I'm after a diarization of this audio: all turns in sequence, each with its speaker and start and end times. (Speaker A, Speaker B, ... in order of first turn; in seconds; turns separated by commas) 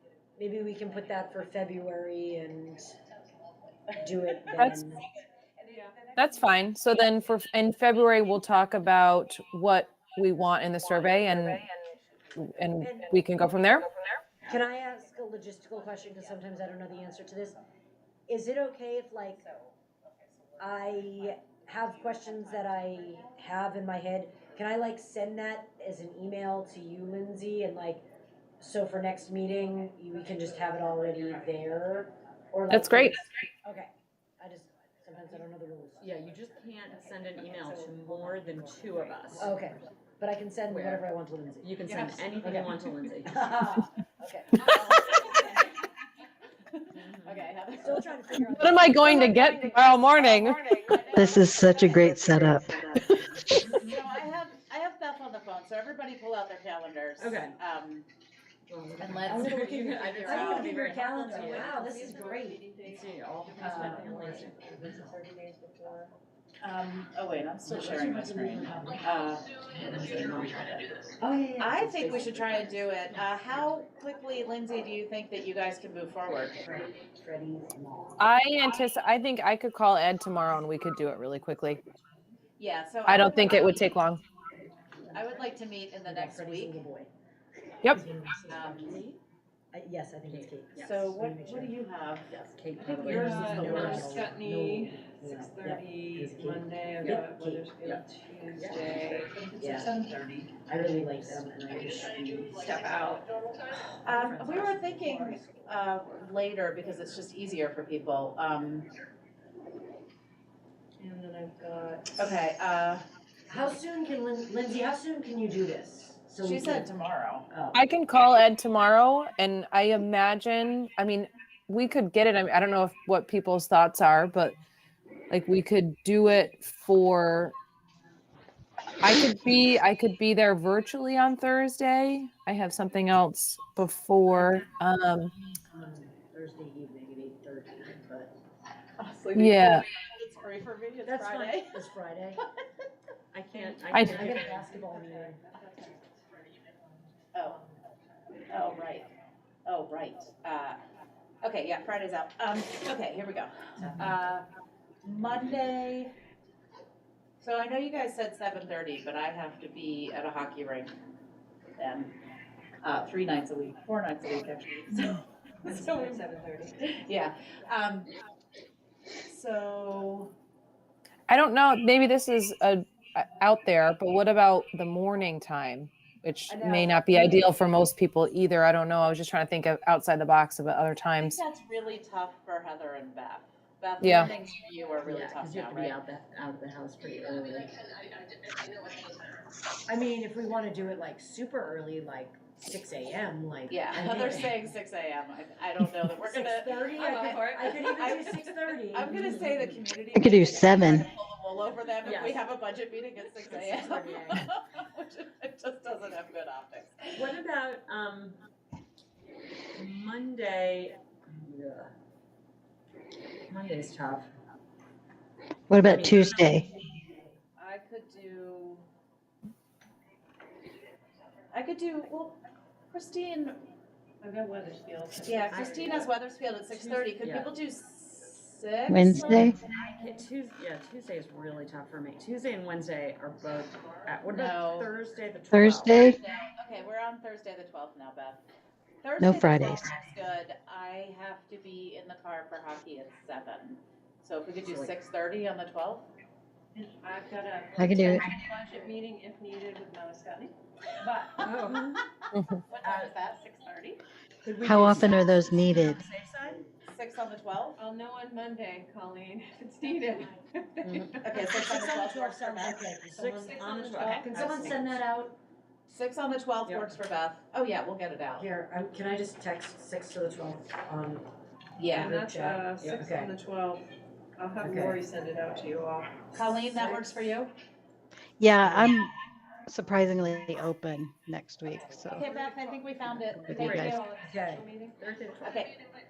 Speaker A: 0.4-3.0, Speaker A: 4.0-5.0, Speaker B: 4.6-4.8, Speaker C: 5.6-6.5, Speaker D: 5.7-6.0, Speaker B: 6.2-13.9, Speaker A: 12.8-13.2, Speaker A: 14.5-17.6, Speaker C: 15.9-17.6, Speaker A: 18.3-19.4, Speaker C: 19.4-23.4, Speaker A: 20.6-28.0, Speaker A: 28.6-36.1, Speaker B: 32.7-33.2, Speaker E: 36.0-39.8, Speaker A: 37.7-38.4, Speaker A: 39.4-41.8, Speaker E: 40.7-41.0, Speaker E: 41.6-43.6, Speaker C: 41.9-42.2, Speaker A: 42.4-42.8, Speaker A: 43.3-45.7, Speaker C: 44.6-45.8, Speaker C: 46.7-53.0, Speaker E: 46.9-47.5, Speaker A: 47.7-51.4, Speaker B: 48.5-51.0, Speaker F: 51.1-52.8, Speaker B: 53.0-53.7, Speaker C: 53.7-58.1, Speaker E: 57.2-57.6, Speaker E: 58.7-61.9, Speaker C: 59.0-61.1, Speaker A: 59.3-62.6, Speaker D: 61.3-66.1, Speaker E: 62.8-65.0, Speaker A: 63.6-64.5, Speaker C: 66.6-70.7, Speaker A: 67.7-69.0, Speaker A: 69.8-73.6, Speaker E: 69.8-70.7, Speaker C: 71.6-76.6, Speaker A: 76.6-78.2, Speaker B: 78.2-81.8, Speaker C: 82.6-83.9, Speaker B: 83.1-84.2, Speaker C: 85.1-86.8, Speaker A: 86.1-87.1, Speaker A: 87.9-89.1, Speaker C: 88.5-89.0, Speaker E: 88.7-89.2, Speaker A: 89.7-91.8, Speaker E: 90.3-91.1, Speaker C: 90.8-92.4, Speaker E: 92.3-94.0, Speaker A: 92.8-97.7, Speaker C: 93.1-94.2, Speaker D: 93.1-99.9, Speaker E: 98.5-99.0, Speaker C: 99.6-100.5, Speaker A: 99.6-99.9, Speaker A: 100.7-102.7, Speaker E: 100.8-101.3, Speaker D: 102.6-103.3, Speaker A: 104.0-105.7, Speaker C: 104.0-108.9, Speaker D: 111.0-112.3, Speaker C: 112.1-113.0, Speaker A: 113.5-116.9, Speaker C: 116.4-117.4, Speaker A: 117.5-117.8, Speaker B: 117.7-124.6, Speaker B: 125.3-127.5, Speaker B: 129.0-135.3, Speaker A: 134.3-134.7, Speaker A: 135.4-138.3, Speaker C: 139.0-141.8, Speaker B: 139.3-139.9, Speaker A: 141.1-142.4, Speaker E: 143.3-144.7, Speaker D: 143.6-147.8, Speaker B: 143.9-144.3, Speaker A: 144.0-145.4, Speaker C: 148.5-149.1, Speaker C: 149.7-150.8, Speaker C: 151.4-154.4, Speaker A: 153.8-154.2, Speaker C: 155.0-156.1, Speaker C: 157.4-160.9, Speaker C: 161.8-162.1, Speaker C: 162.8-166.2, Speaker D: 165.7-167.0, Speaker C: 167.0-168.1, Speaker C: 169.3-170.3, Speaker B: 171.3-181.4, Speaker A: 176.5-177.4, Speaker C: 181.2-186.0, Speaker B: 184.0-184.3, Speaker E: 185.0-187.9, Speaker A: 189.9-194.7, Speaker C: 193.7-207.2, Speaker A: 196.2-199.5, Speaker D: 196.9-198.3, Speaker E: 199.1-199.8, Speaker F: 200.1-201.1, Speaker E: 202.0-202.5, Speaker E: 203.4-204.4, Speaker E: 207.2-208.4, Speaker E: 209.7-211.9, Speaker E: 213.5-214.3, Speaker F: 215.7-216.7, Speaker E: 215.8-216.5, Speaker D: 217.6-218.8, Speaker C: 221.5-222.4, Speaker C: 222.9-223.6, Speaker D: 224.2-226.1, Speaker C: 225.2-229.5, Speaker D: 226.7-227.1, Speaker E: 227.2-227.6, Speaker F: 228.9-229.6, Speaker E: 229.3-236.2, Speaker A: 229.8-230.1, Speaker C: 234.3-234.9, Speaker F: 235.5-236.2, Speaker C: 236.0-238.4, Speaker C: 239.0-246.1, Speaker F: 239.2-240.1, Speaker E: 244.6-244.9, Speaker D: 246.8-251.8, Speaker F: 247.8-248.3, Speaker E: 251.4-252.1, Speaker B: 252.3-252.6, Speaker D: 252.7-254.0, Speaker E: 252.8-253.1, Speaker E: 254.4-256.6, Speaker F: 254.6-256.0, Speaker C: 256.8-257.8, Speaker D: 257.8-261.1, Speaker E: 260.8-261.2, Speaker C: 261.2-262.8, Speaker A: 261.4-265.3, Speaker E: 263.1-265.0, Speaker D: 263.6-264.7, Speaker C: 264.4-264.9, Speaker C: 265.9-268.4, Speaker E: 266.7-266.9, Speaker A: 268.4-271.3, Speaker C: 271.8-272.1, Speaker D: 271.9-273.9, Speaker A: 271.9-273.3, Speaker D: 274.4-276.3, Speaker A: 274.6-275.0, Speaker C: 276.3-277.5, Speaker A: 276.4-277.1, Speaker F: 278.4-279.1, Speaker A: 278.6-278.9, Speaker F: 279.7-282.2, Speaker C: 282.1-283.9, Speaker D: 282.1-283.0, Speaker F: 283.4-284.0, Speaker E: 283.4-284.1, Speaker D: 283.8-285.0, Speaker A: 284.2-284.7, Speaker E: 285.0-285.7, Speaker C: 285.4-285.7